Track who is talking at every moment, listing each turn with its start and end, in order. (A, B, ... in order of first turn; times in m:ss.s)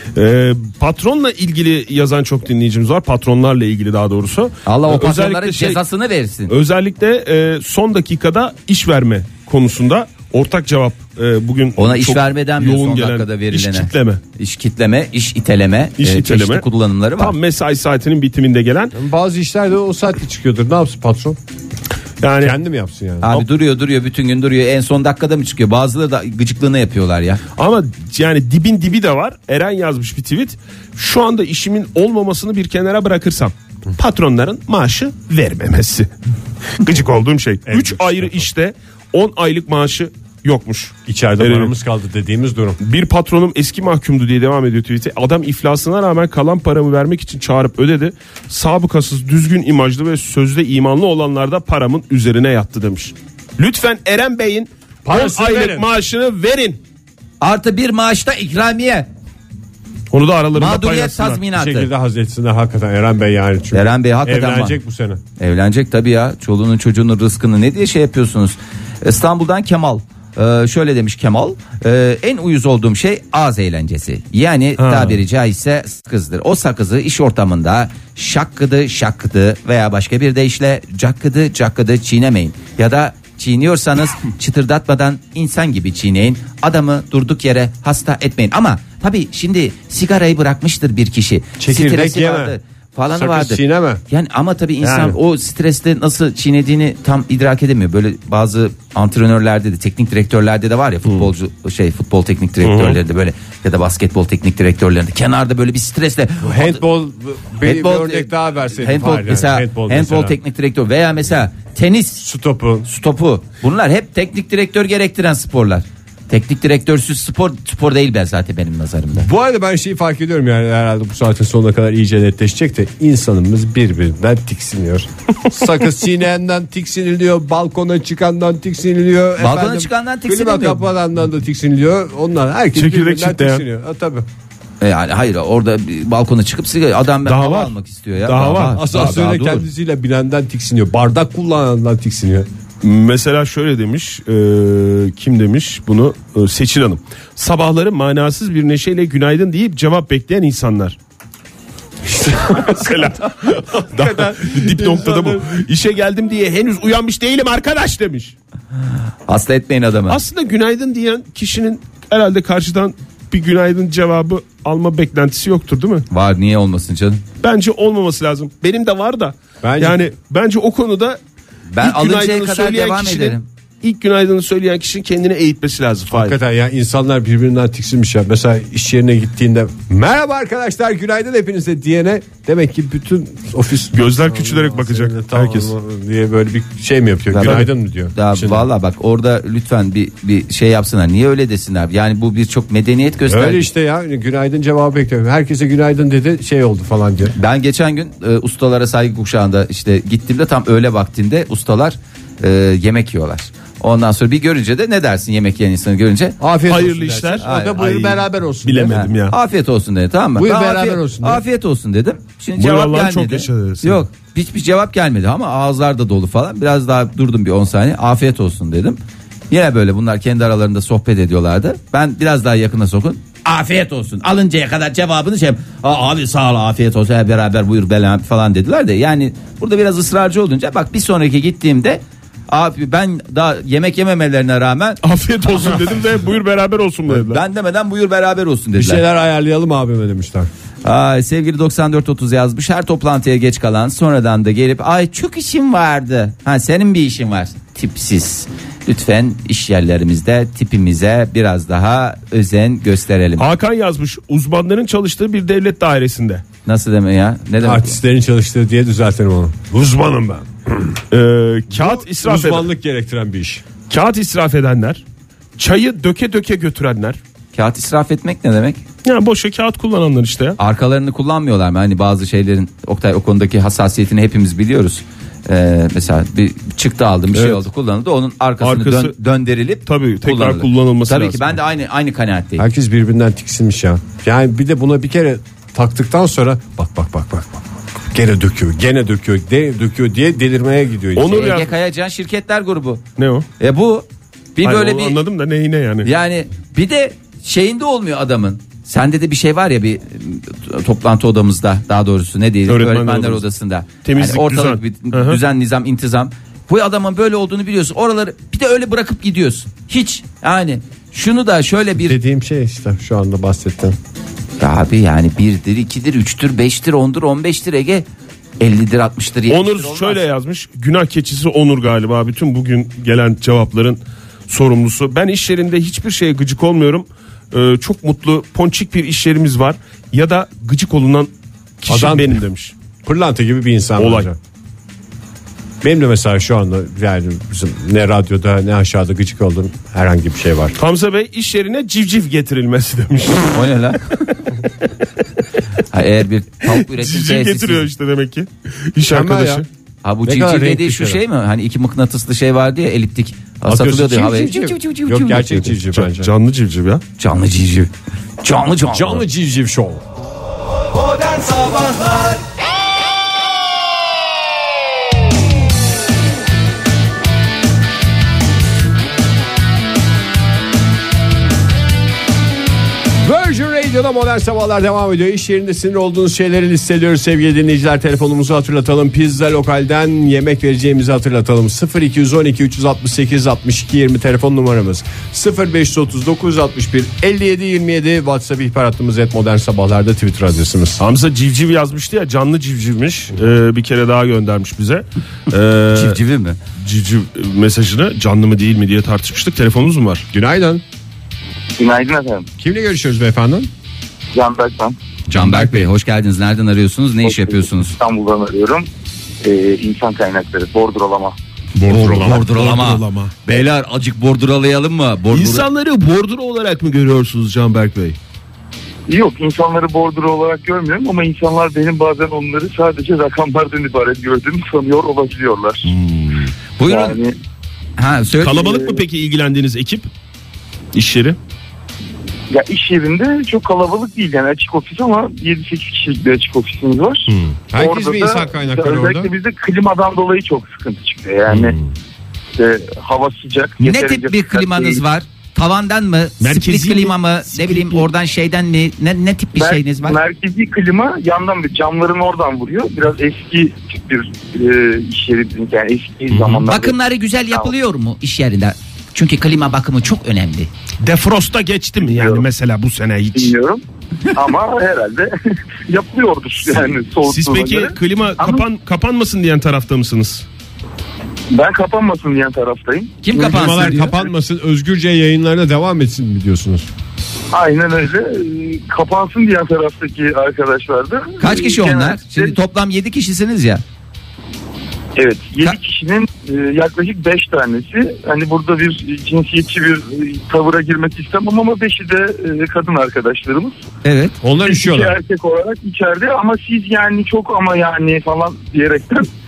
0:00.2-0:05.8 A
0:04.6-0:06.5 B
0:06.5-0:14.2 A
0:11.8-0:17.4 B
0:16.0-0:16.6 A
0:17.2-0:18.9 A
0:18.9-0:21.4 C
0:22.2-0:22.6 A
0:22.4-0:23.3 C
0:23.2-0:27.4 B
0:27.6-0:36.1 A
0:36.8-0:41.7 A
0:37.7-0:38.4 C
0:41.0-0:42.8 C
0:42.8-0:56.8 A
0:55.0-0:55.8 C
0:57.4-0:59.1 B
1:00.1-1:01.4 A
1:00.5-1:01.9 B
1:01.5-1:05.2 C
1:03.7-1:04.8 B
1:05.4-1:46.8 B
1:14.8-1:15.2 A
1:31.6-1:32.6 C
1:33.1-1:34.0 C
1:34.8-1:35.1 A
1:42.6-1:43.0 A
1:46.4-1:50.3 C
1:47.6-1:52.2 B
1:52.2-1:52.9 C
1:52.8-1:59.3 B
1:59.2-2:14.2 C
2:09.4-2:10.9 B
2:12.7-2:13.6 A
2:14.8-2:19.6 B
2:17.2-2:19.1 A
2:18.6-2:22.5 C
2:22.8-2:31.0 A
2:32.0-2:35.6 C
2:32.4-2:38.3 A
2:39.3-2:40.2 B
2:40.1-2:46.0 A
2:46.1-2:47.2 B
2:47.4-2:51.2 A
2:49.6-2:50.0 C
2:51.7-2:53.4 B
2:51.8-2:56.4 A
2:56.1-3:08.6 C
3:03.9-3:05.7 A
3:07.3-3:13.7 B
3:13.3-3:17.3 C
3:17.4-3:26.4 B
3:26.4-3:29.0 C
3:26.6-3:29.3 A
3:27.4-3:27.8 B
3:28.9-3:39.0 B
3:30.3-3:31.4 C
3:32.6-3:34.0 A
3:39.5-3:55.0 B
3:55.0-3:57.4 A
3:57.1-3:59.0 B
3:58.8-4:00.5 C
4:00.8-4:13.4 B
4:13.4-4:16.4 A
4:16.6-4:18.0 B
4:17.6-4:21.0 C
4:21.1-4:22.7 A
4:21.7-4:23.6 C
4:23.9-4:25.0 A
4:25.6-4:27.2 A
4:27.5-4:28.8 B
4:29.0-4:30.6 A
4:30.6-4:42.6 B
4:37.3-4:37.6 A
4:38.6-4:39.1 A
4:39.8-4:41.6 A
4:42.6-4:51.5 C
4:51.2-4:51.7 A
4:51.3-4:53.0 B
4:53.2-4:53.5 A
4:53.6-4:55.2 B
4:54.6-4:56.1 A
4:56.0-5:12.2 B
5:02.7-5:03.4 A
5:04.0-5:05.4 A
5:12.0-5:14.0 C
5:14.6-5:18.1 B
5:18.6-5:20.2 B
5:19.5-5:31.3 A
5:31.8-5:32.7 A
5:31.9-5:32.4 C
5:33.0-5:34.4 C
5:34.0-5:34.3 A
5:35.8-5:40.8 C
5:40.8-5:43.6 A
5:43.5-5:44.3 B
5:45.9-5:47.8 B
5:46.7-5:49.7 A
5:49.0-5:49.6 C
5:50.0-5:55.7 B
5:50.2-5:51.2 C
5:53.6-5:56.3 C
5:55.9-5:57.0 A
5:57.2-5:59.2 B
5:58.9-6:00.0 C
6:01.1-6:02.4 B
6:13.2-6:31.0 C
6:31.0-6:36.2 A
6:35.9-6:36.6 B
6:36.8-6:40.2 A
6:40.3-6:40.8 C
6:41.8-6:42.5 D
6:42.6-6:43.7 C
6:44.3-6:45.0 D
6:45.3-6:47.9 B
6:45.3-6:45.9 C
6:47.2-6:48.9 D
6:49.4-6:51.4 D
6:51.8-6:53.3 A
6:51.9-6:55.6 B
6:55.3-6:58.2 A
6:59.1-7:05.9 D
7:05.8-7:06.5 A
7:06.8-7:07.2 B
7:06.8-7:07.3 D
7:08.0-7:08.8 B
7:08.4-7:10.1 A
7:10.9-7:11.4 A
7:12.5-7:21.8 D
7:17.3-7:17.6 A
7:17.7-7:19.3 C
7:21.5-7:21.8 A
7:22.6-7:25.0 D
7:23.8-7:30.2 B
7:26.4-7:28.1 A
7:29.6-7:36.9 D
7:36.3-7:36.6 A
7:36.7-7:40.7 B
7:41.0-7:43.5 A
7:42.1-7:42.4 D
7:43.3-7:45.3 D
7:45.8-7:48.6 D
7:47.2-7:50.4 A
7:51.5-7:53.1 D
7:53.2-7:54.1 B
7:53.3-7:56.9 C
7:53.6-7:54.2 A
7:57.5-8:02.6 D
8:01.4-8:03.8 B
8:05.2-8:13.8 D
8:14.0-8:14.4 B
8:14.4-8:15.2 C
8:14.6-8:19.3 D